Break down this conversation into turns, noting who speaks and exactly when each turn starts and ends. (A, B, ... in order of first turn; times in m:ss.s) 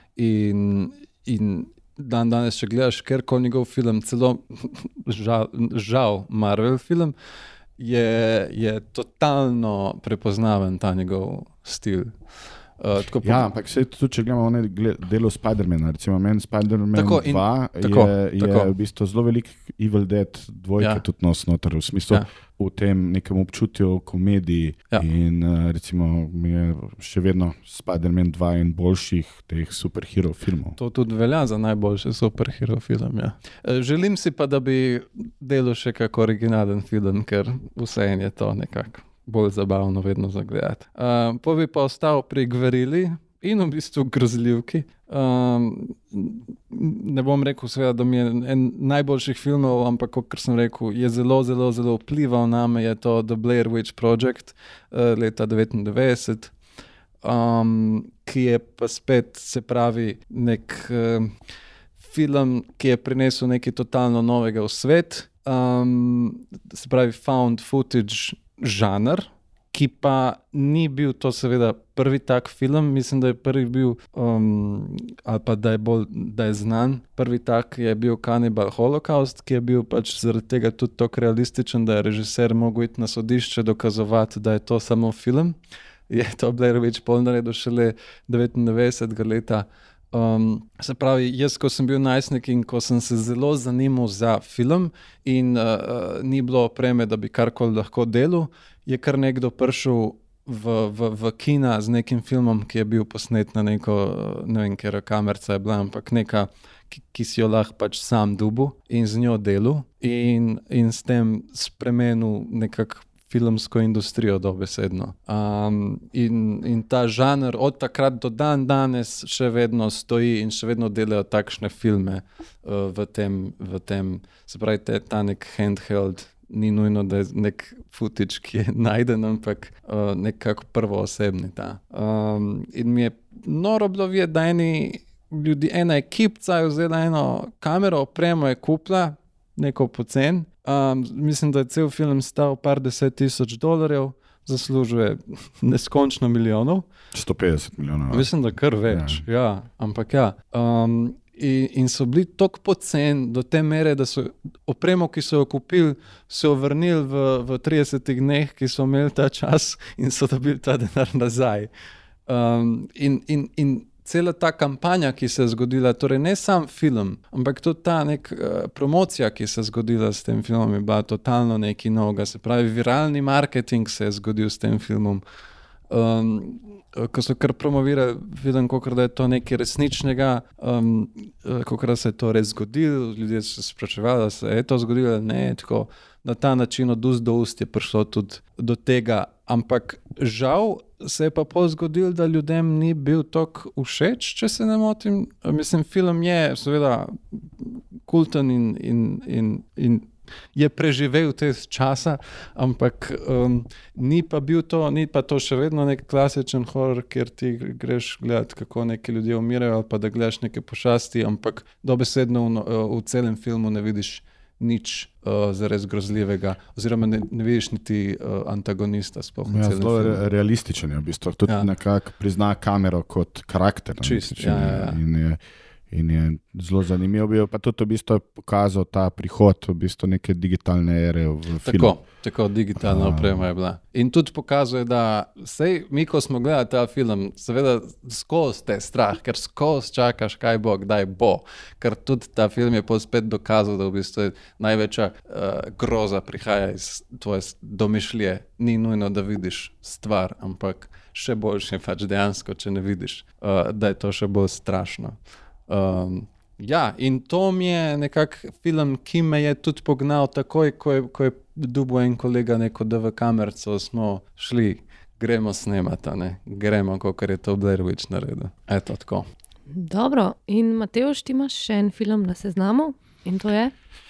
0:00.2-0:07.1 A
0:07.8-0:13.5 A
0:13.2-0:30.8 B
0:16.9-0:18.7 A
0:20.8-0:21.0 A
0:30.8-0:56.5 A
0:57.2-1:01.3 A
1:02.0-1:25.5 A
1:26.1-2:26.8 A
2:27.1-2:28.3 B
2:28.1-2:41.7 A
2:28.9-2:29.2 B
2:42.3-2:55.2 A
2:55.9-3:40.2 A
3:39.4-3:51.9 B
3:44.0-3:45.0 A
3:51.6-4:15.2 A
3:52.8-3:53.5 B
4:15.7-4:29.2 A
4:29.7-4:33.7 C